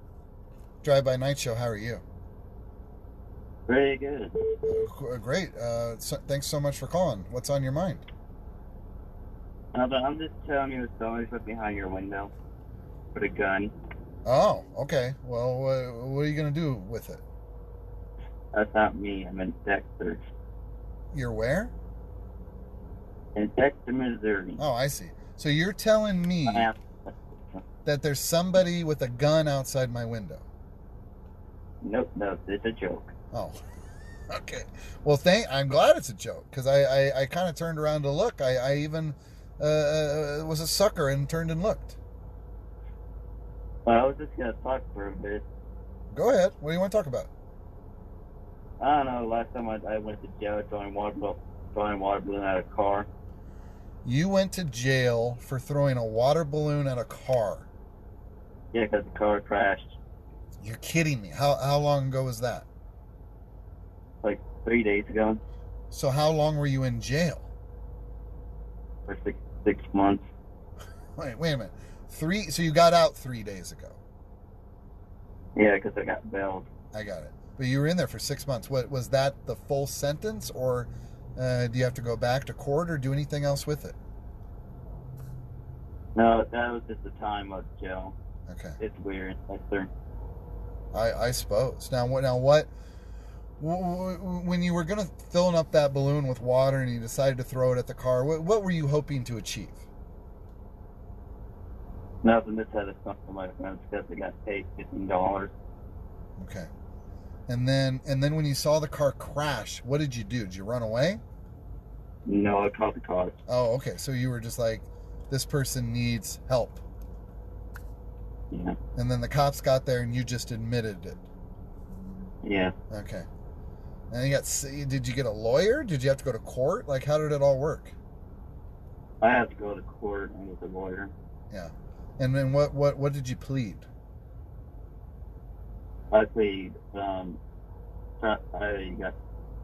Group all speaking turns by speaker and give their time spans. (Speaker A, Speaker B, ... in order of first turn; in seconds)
Speaker A: 0.8-2.0, 4.7-8.1, 14.3-17.2, 21.1-21.7, 24.6-26.7, 27.9-30.5, 33.3-33.6, 34.3-42.0, 46.1-47.3, 54.0-57.7, 60.6-62.7, 65.9-67.5, 71.2-74.0, 76.9-84.0, 88.5-88.8, 90.9-92.7, 93.6-99.9, 106.4-106.7, 107.5-111.2, 113.5-116.8, 119.0-121.3, 122.9-123.3, 124.1-128.0, 131.5-133.9
Speaker B: 3.7-4.3, 9.7-12.3, 13.1-13.7, 18.5-20.2, 23.4-24.6, 26.5-27.6, 31.8-33.1, 43.9-45.4, 48.8-53.1, 58.7-60.0, 64.2-65.4, 69.1-70.2, 75.6-76.7, 86.2-88.2, 88.8-89.9, 102.2-105.5, 112.3-113.4, 118.5-118.8, 122.4-122.8, 129.2-131.1, 136.1-137.4, 138.2-139.2